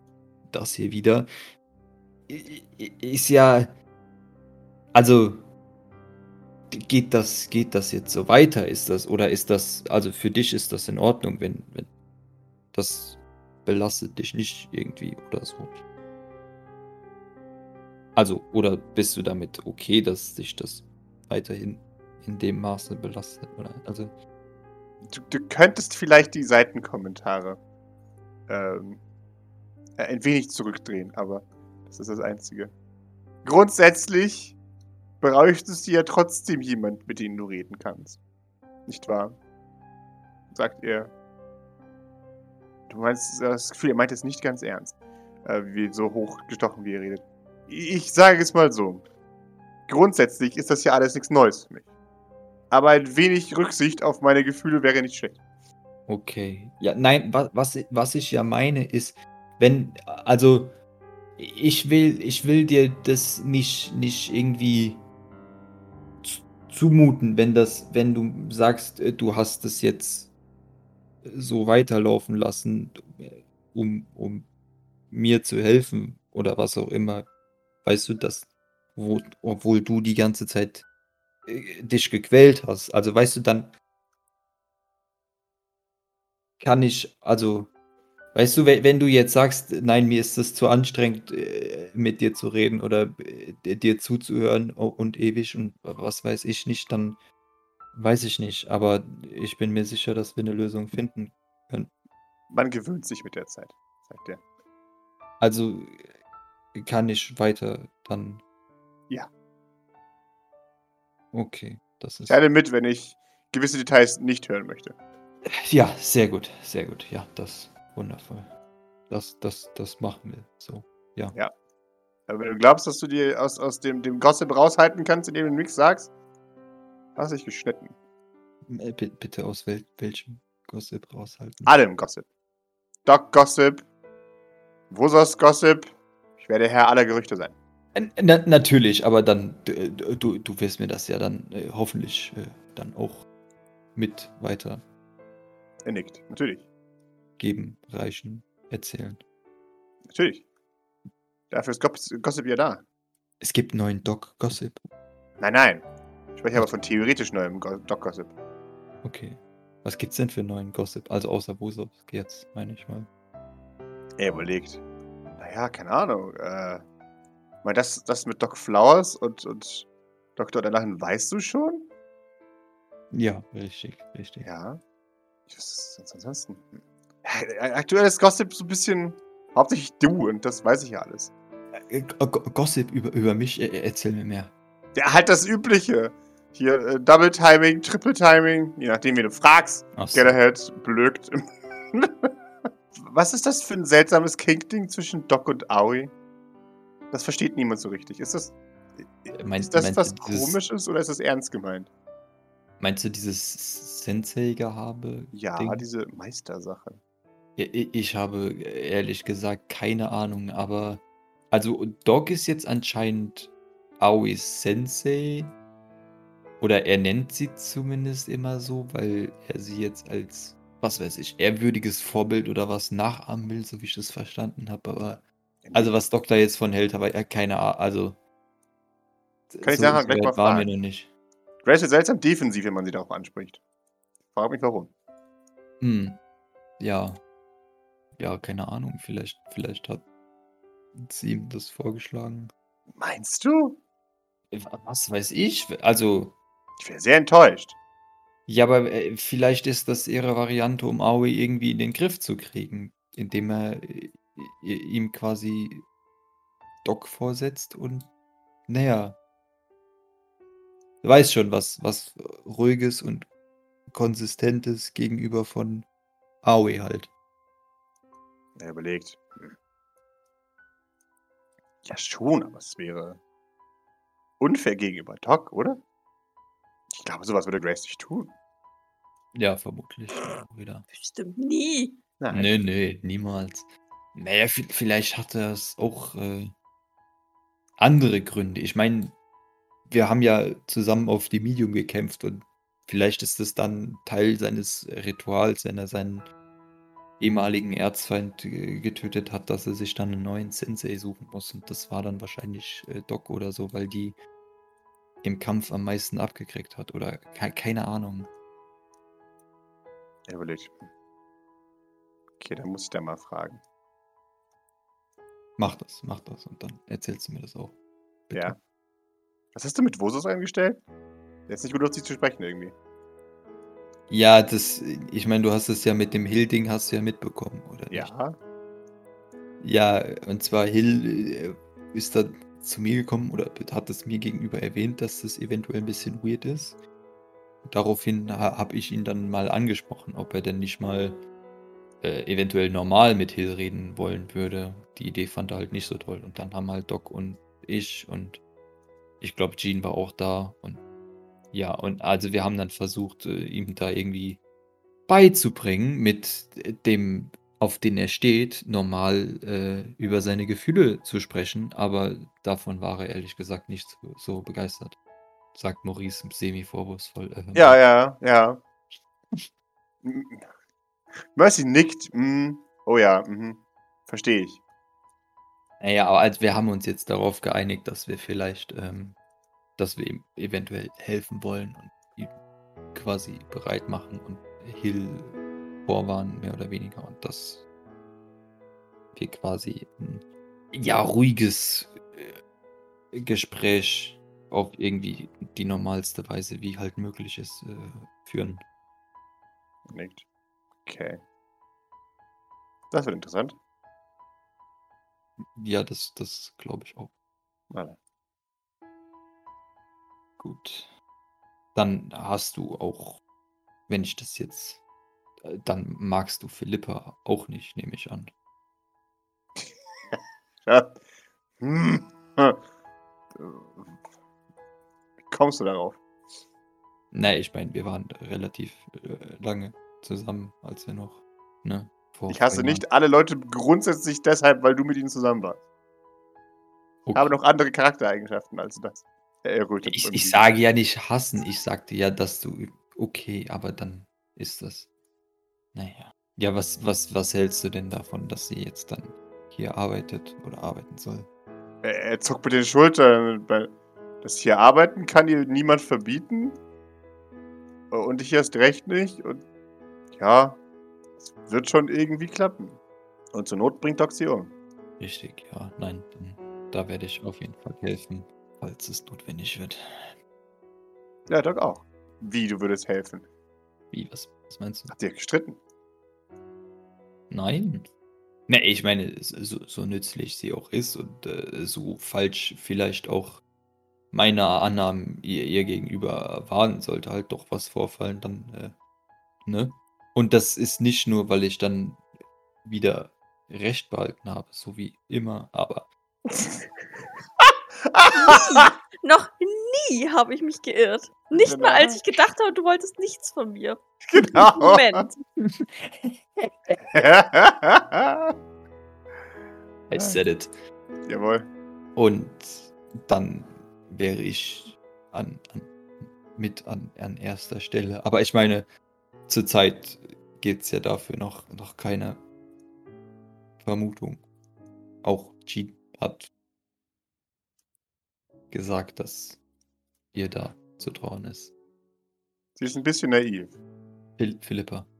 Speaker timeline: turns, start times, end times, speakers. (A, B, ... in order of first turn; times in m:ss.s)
0:00.5-0:01.3 A
0:02.3-0:03.7 A
0:04.9-0:05.5 A
0:06.7-0:11.9 A
0:12.7-0:15.8 A
0:18.2-0:24.1 A
0:25.1-0:27.6 B
0:28.5-0:29.0 B
0:30.0-0:32.7 B
0:33.4-0:34.6 B
0:35.2-0:38.2 B
0:38.9-0:39.4 B
0:40.5-0:41.1 B
0:42.9-0:49.0 B
0:49.9-0:51.9 B
0:52.7-0:55.4 B
0:56.1-1:00.8 A
1:01.4-1:05.0 A
1:06.2-1:10.3 A
1:11.2-1:14.5 A
1:15.1-1:17.3 A
1:17.8-1:20.8 A
1:21.5-1:23.7 A
1:26.6-1:27.7 A
1:28.3-1:37.2 A
1:37.9-1:41.9 A
1:42.5-1:44.4 B
1:45.4-1:46.2 A
1:46.8-1:48.4 A
1:51.3-1:52.4 A
1:52.3-1:55.0 B
1:55.5-1:58.5 A
1:59.1-2:01.4 A
2:02.3-2:06.1 B
2:07.2-2:08.0 B
2:08.7-2:11.7 A
2:11.7-2:12.3 B
2:13.1-2:13.9 B
2:14.9-2:17.6 B
2:18.0-2:23.2 A
2:24.0-2:24.8 A
2:25.8-2:26.7 B
2:27.4-2:29.2 A
2:30.1-2:30.4 B
2:31.5-2:32.8 B
2:33.4-2:34.9 A
2:35.4-2:38.4 B
2:39.0-2:43.1 A
2:44.2-2:44.8 B
2:45.4-2:46.8 B
2:47.6-2:51.9 B
2:53.1-2:54.5 A
2:54.4-2:54.8 B
2:55.5-3:01.3 B
3:01.8-3:04.5 A
3:05.0-3:11.4 B
3:10.0-3:10.4 A
3:11.9-3:12.3 B
3:13.0-3:16.1 B
3:17.1-3:21.9 B
3:19.4-3:20.6 A
3:22.8-3:25.8 A
3:25.3-3:27.0 B
3:27.6-3:35.5 A
3:36.6-3:48.2 A
3:45.6-3:46.0 B
3:49.5-3:51.1 A
3:49.6-3:50.7 B
3:51.6-3:53.6 B
3:54.3-3:54.9 B
3:55.8-3:56.2 A
3:56.8-3:57.2 A
3:58.2-4:00.0 A
4:01.0-4:02.5 A
4:02.9-4:03.8 B
4:04.5-4:06.4 A
4:06.8-4:07.8 B
4:08.5-4:15.9 A
4:16.8-4:18.1 A
4:18.7-4:19.2 A
4:21.0-4:23.3 A
4:23.9-4:25.9 A
4:26.4-4:27.1 A
4:28.6-4:29.6 B
4:31.8-4:33.2 B
4:34.4-4:35.8 B
4:36.9-4:38.3 B
4:39.3-4:40.9 A
4:40.9-4:42.0 C
4:42.2-4:42.6 B
4:42.3-4:46.5 A
4:47.8-4:49.2 A
4:49.9-4:56.3 A
4:57.2-5:04.2 A
5:05.2-5:08.3 A
5:10.3-5:10.8 B
5:12.4-5:13.6 B
5:15.6-5:17.8 A
5:18.3-5:18.6 A
5:19.5-5:20.8 B
5:21.5-5:22.8 B
5:24.1-5:28.1 A
5:27.9-5:28.4 B
5:29.6-5:36.8 A
5:37.6-5:41.2 A
5:42.0-5:48.4 A
5:49.2-5:50.8 A
5:51.5-5:54.4 A
5:55.1-6:05.0 A
6:05.5-6:07.8 A
6:07.6-6:08.6 B
6:10.0-6:10.4 B
6:11.3-6:14.6 B
6:15.8-6:19.2 A
6:19.8-6:22.3 A
6:22.9-6:27.7 A
6:29.2-6:32.4 A
6:33.1-6:38.6 A
6:39.9-6:40.3 B
6:40.8-6:41.2 B
6:42.9-6:43.6 B
6:45.6-6:47.1 A
6:47.7-6:48.0 B
6:50.4-6:50.9 A
6:51.8-6:53.2 A
6:53.9-6:54.8 A
6:55.4-6:58.3 A
6:59.6-7:01.0 B
7:01.6-7:02.6 B
7:03.3-7:03.9 B
7:05.3-7:06.0 B
7:07.1-7:12.8 A
7:12.3-7:15.6 B
7:17.0-7:17.3 A
7:17.2-7:20.5 B
7:19.9-7:24.9 A
7:25.7-7:31.3 A
7:31.8-7:36.6 B
7:37.9-7:39.4 B
7:40.2-7:40.6 B
7:41.2-7:42.8 B
7:43.3-7:44.6 B
7:45.0-7:50.1 A
7:51.3-7:53.2 B
7:53.9-7:55.0 A
7:54.9-7:55.6 B
7:57.3-7:57.9 A
7:58.5-8:03.4 A
8:04.1-8:08.8 A
8:09.4-8:12.0 A
8:12.6-8:15.9 A
8:17.9-8:18.7 B
8:18.1-8:23.8 C
8:21.3-8:22.0 B
8:24.1-8:25.0 B
8:24.4-8:25.2 C
8:25.4-8:26.8 A
8:26.9-8:28.4 B
8:29.9-8:30.5 A
8:29.9-8:30.2 B
8:31.1-8:31.5 B
8:32.0-8:38.7 A
8:39.3-8:42.2 A
8:43.6-8:44.2 A
8:45.0-8:46.3 A
8:48.5-8:49.4 A
8:50.1-8:51.5 A
8:52.6-8:53.6 B
8:54.2-8:54.9 A